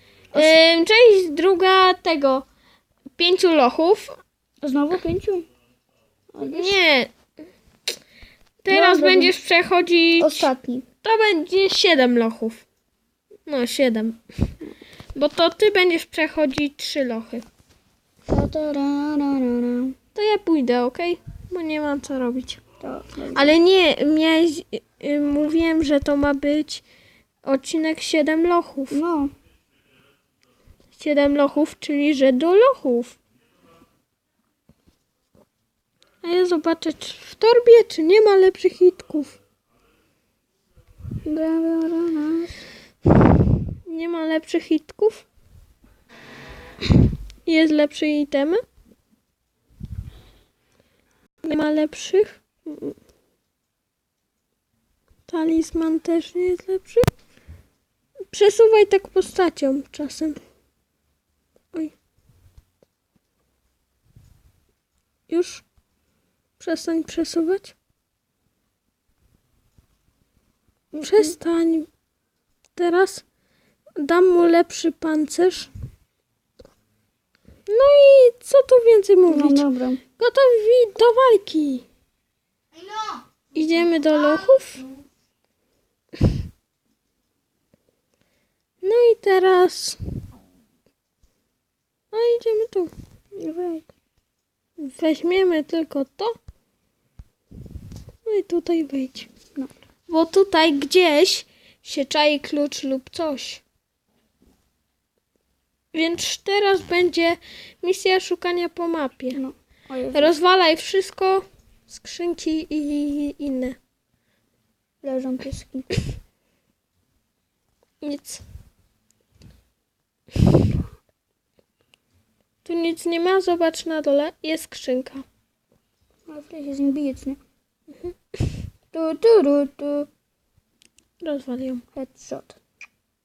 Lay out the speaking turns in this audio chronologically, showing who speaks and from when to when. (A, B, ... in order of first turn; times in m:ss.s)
0:00.3-0:02.4 A
0:03.2-0:04.2 A
0:04.6-0:05.4 B
0:06.3-0:06.8 B
0:06.5-0:07.1 A
0:08.6-0:10.5 A
0:08.7-0:09.3 B
0:10.2-0:10.8 B
0:11.0-0:12.6 A
0:13.4-0:14.2 A
0:15.1-0:17.4 A
0:18.3-0:19.9 B
0:20.1-0:22.6 A
0:22.8-0:23.6 B
0:23.3-0:26.8 A
0:27.4-0:29.0 A
0:28.9-0:29.3 B
0:31.0-0:33.2 A
0:36.2-0:39.4 A
0:41.2-0:42.5 B
0:43.8-0:45.2 A
0:47.4-0:48.6 A
0:51.4-0:52.4 A
0:55.3-0:57.1 A
0:58.3-1:00.4 A
1:05.3-1:05.6 A
1:06.6-1:07.7 A
1:10.9-1:11.4 B
1:11.0-1:11.9 A
1:12.8-1:13.2 A
1:14.0-1:15.7 A
1:17.7-1:19.6 A
1:19.2-1:20.0 B
1:20.2-1:21.8 A
1:23.5-1:24.8 A
1:28.8-1:30.0 A
1:32.1-1:32.9 A
1:33.4-1:33.9 B
1:34.8-1:36.3 A
1:38.2-1:39.3 A
1:40.1-1:43.6 A
1:45.9-1:49.4 A
1:49.3-1:50.3 B
1:50.1-1:53.8 A
1:55.0-1:55.9 B
1:58.0-1:58.4 A
2:02.6-2:05.2 A
2:06.3-2:07.4 B
2:08.9-2:10.1 B
2:11.2-2:11.8 A
2:11.9-2:12.6 B